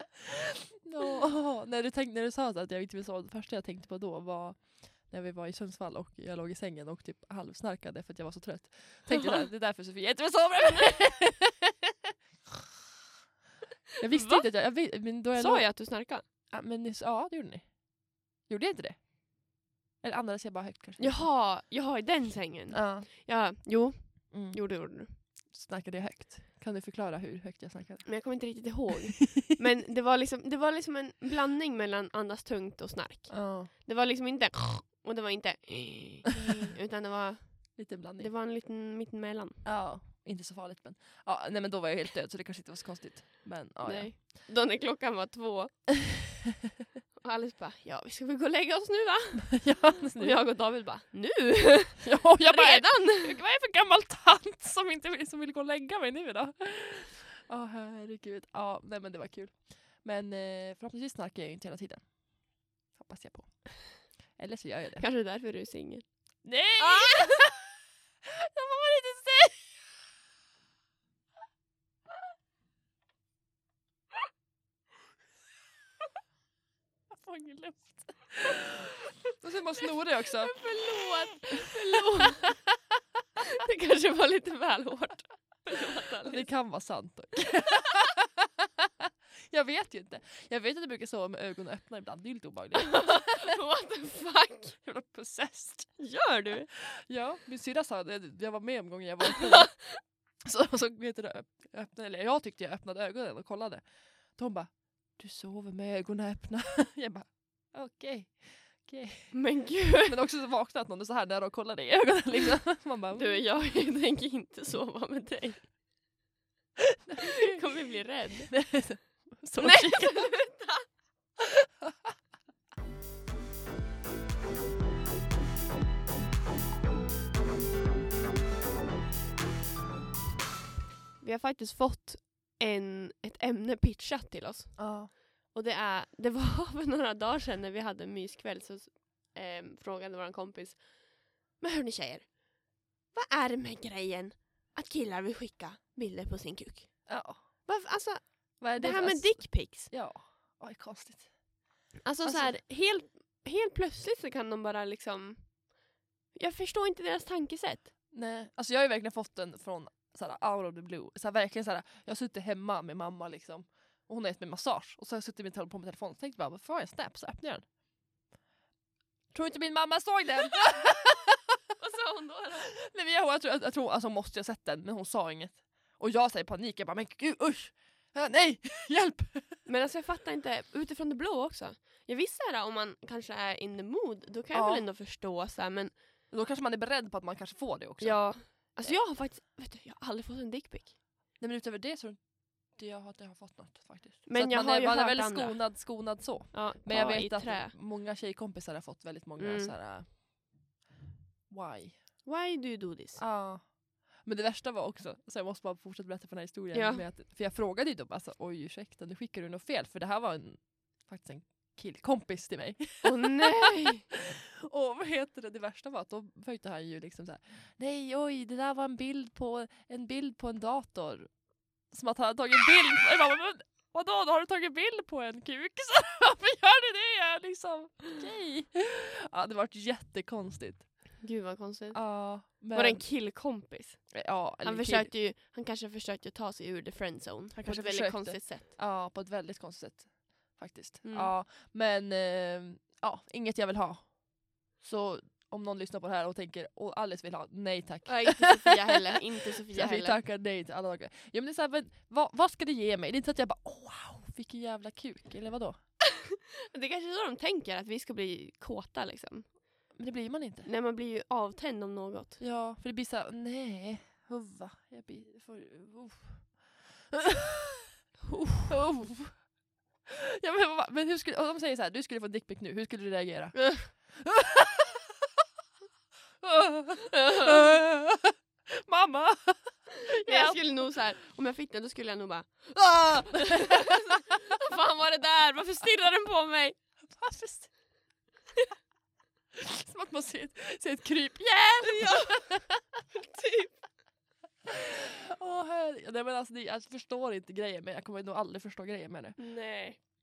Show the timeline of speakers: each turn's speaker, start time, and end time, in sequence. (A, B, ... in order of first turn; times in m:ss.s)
0:00.8-0:11.9 A
0:14.0-0:21.3 A
0:14.1-0:14.5 B
0:15.3-0:16.2 B
0:21.0-0:25.2 B
0:22.7-0:23.1 A
0:24.3-0:28.7 A
0:28.0-0:39.7 B
0:33.3-0:33.7 A
0:37.8-0:38.3 A
0:39.6-0:44.2 A
0:43.8-0:46.0 B
0:47.2-0:53.4 B
0:49.5-0:50.4 A
0:52.0-1:05.1 A
1:05.0-1:07.5 B
1:06.4-1:07.6 A
1:08.2-1:09.8 A
1:17.1-1:20.6 A
1:20.4-1:22.6 B
1:23.4-1:26.5 B
1:26.3-1:28.9 A
1:29.5-1:33.5 A
1:32.8-1:34.8 B
1:34.8-1:36.2 A
1:36.0-1:36.7 B
1:36.8-1:53.5 A
1:39.6-1:39.8 B
1:49.3-1:50.2 B
1:53.2-1:55.7 B
1:57.1-1:57.6 A
1:57.2-2:00.9 B
1:58.5-2:00.5 A
2:11.2-2:29.9 B
2:14.8-2:15.1 A
2:27.1-2:27.4 A
2:28.6-2:31.6 A
2:32.0-2:35.7 B
2:32.2-2:32.6 A
2:36.3-2:37.9 B
2:38.1-2:47.7 A
2:49.3-2:51.4 A
2:51.8-2:52.8 B
2:52.7-2:59.6 A
2:59.6-3:06.0 B
3:04.5-3:04.9 A
3:06.3-3:09.0 A
3:08.0-3:11.0 B
3:11.4-3:20.2 A
3:14.3-3:17.8 B
3:19.4-3:19.8 B
3:21.5-3:22.1 A
3:22.2-3:23.3 B
3:23.2-3:51.2 A
3:26.7-3:27.1 B
3:33.0-3:34.0 B
3:51.2-3:58.7 B
3:51.9-3:53.1 A
3:54.1-3:55.1 A
3:57.6-4:08.8 A
4:01.0-4:01.3 B
4:08.1-4:10.2 B
4:09.7-4:15.8 A
4:16.7-4:19.9 B
4:19.9-4:20.7 A
4:20.6-4:22.4 B
4:22.4-4:27.7 A
4:28.3-4:28.7 B
4:28.7-4:29.6 A
4:30.1-4:35.1 A
4:33.6-4:33.9 B
4:36.4-4:40.8 A
4:37.1-4:37.7 B
4:40.2-4:46.8 B
4:43.2-4:44.0 A
4:47.0-4:47.8 A
4:49.5-4:52.8 A
4:51.8-4:52.5 B
4:53.1-4:53.8 B
4:54.7-4:59.5 A
4:59.4-5:00.0 B